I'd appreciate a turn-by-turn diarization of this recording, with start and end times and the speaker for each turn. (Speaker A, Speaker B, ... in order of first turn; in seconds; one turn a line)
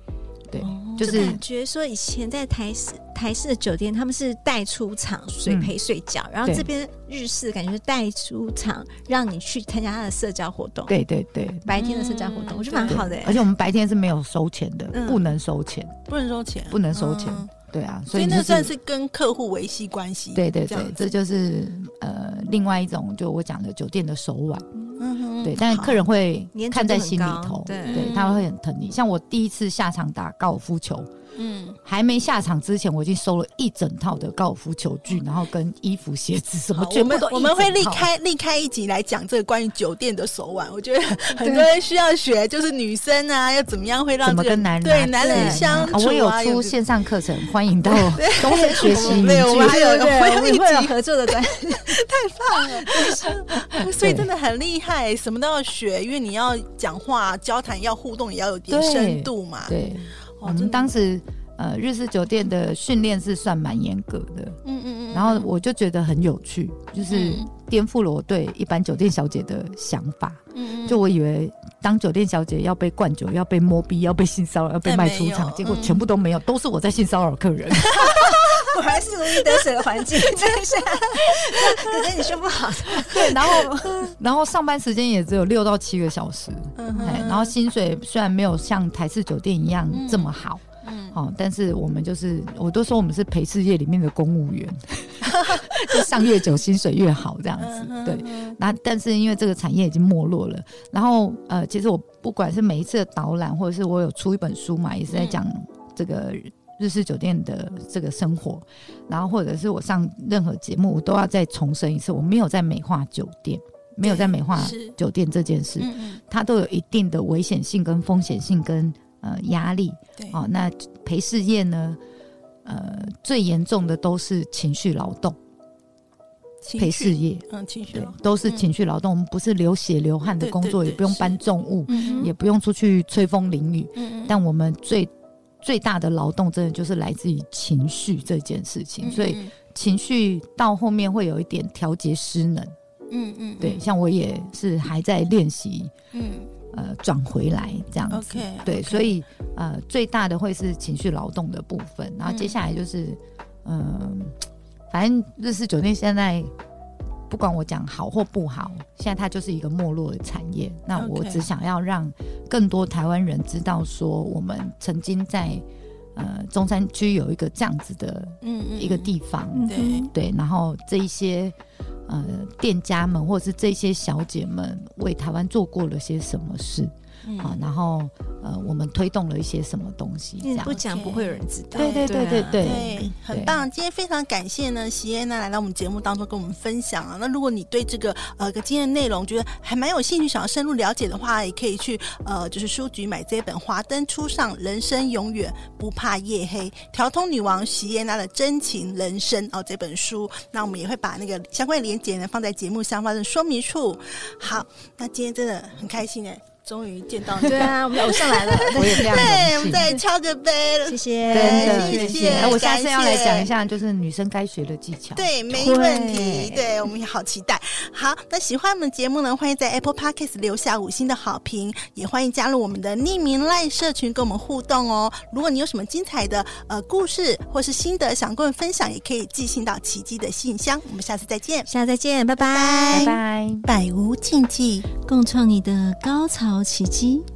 Speaker A: 0.5-1.4
Speaker B: 0.7-10.9
Speaker C: 0.9-1.4
Speaker A: 5.5-5.7
Speaker A: 10.9-11.9
Speaker B: 11.7-13.5
Speaker C: 11.8-13.0
Speaker A: 12.8-16.0
Speaker B: 14.9-15.2
Speaker C: 16.1-17.5
Speaker A: 16.7-18.7
Speaker C: 18.1-21.0
Speaker A: 20.3-24.7
Speaker C: 25.0-26.0
Speaker A: 25.4-31.1
Speaker B: 26.5-28.2
Speaker C: 27.9-28.5
Speaker C: 31.4-31.8
Speaker A: 31.8-38.1
Speaker C: 36.7-46.8
Speaker B: 41.3-41.7
Speaker A: 44.2-49.8
Speaker B: 45.2-46.0
Speaker C: 47.9-59.8
Speaker B: 48.5-53.4
Speaker A: 53.7-54.3
Speaker A: 58.7-64.6
Speaker C: 60.4-60.9
Speaker C: 64.6-65.5
Speaker A: 65.1-78.3
Speaker C: 67.1-67.5
Speaker C: 70.5-71.0
Speaker C: 74.8-76.0
Speaker B: 78.0-84.1
Speaker A: 81.5-81.8
Speaker A: 83.0-122.0
Speaker C: 86.8-87.5
Speaker C: 89.9-91.1
Speaker C: 95.3-96.0
Speaker C: 97.6-98.6
Speaker C: 105.1-105.4
Speaker C: 114.0-115.0
Speaker C: 115.8-116.2
Speaker A: 122.6-125.4
Speaker C: 126.6-128.7
Speaker A: 126.8-135.1
Speaker C: 130.4-132.3
Speaker B: 131.9-132.3
Speaker C: 133.9-134.3
Speaker A: 135.6-142.7
Speaker C: 139.0-139.5
Speaker C: 143.1-143.8
Speaker A: 143.6-145.9
Speaker C: 146.1-146.5
Speaker A: 146.7-154.4
Speaker C: 148.1-149.1
Speaker C: 152.2-152.6
Speaker A: 154.9-156.5
Speaker A: 157.3-165.6
Speaker C: 160.9-161.4
Speaker A: 166.1-171.5
Speaker C: 168.4-169.1
Speaker B: 169.5-170.1
Speaker C: 169.7-170.1
Speaker A: 172.1-180.8
Speaker C: 177.2-177.6
Speaker B: 180.4-182.8
Speaker C: 180.7-213.5
Speaker A: 181.8-183.6
Speaker B: 207.4-210.0
Speaker A: 208.8-210.0
Speaker B: 210.8-212.6
Speaker A: 211.3-215.3
Speaker C: 215.1-231.7
Speaker B: 215.5-216.8
Speaker B: 231.7-233.2
Speaker C: 232.5-234.9
Speaker A: 232.9-233.7
Speaker B: 235.0-237.3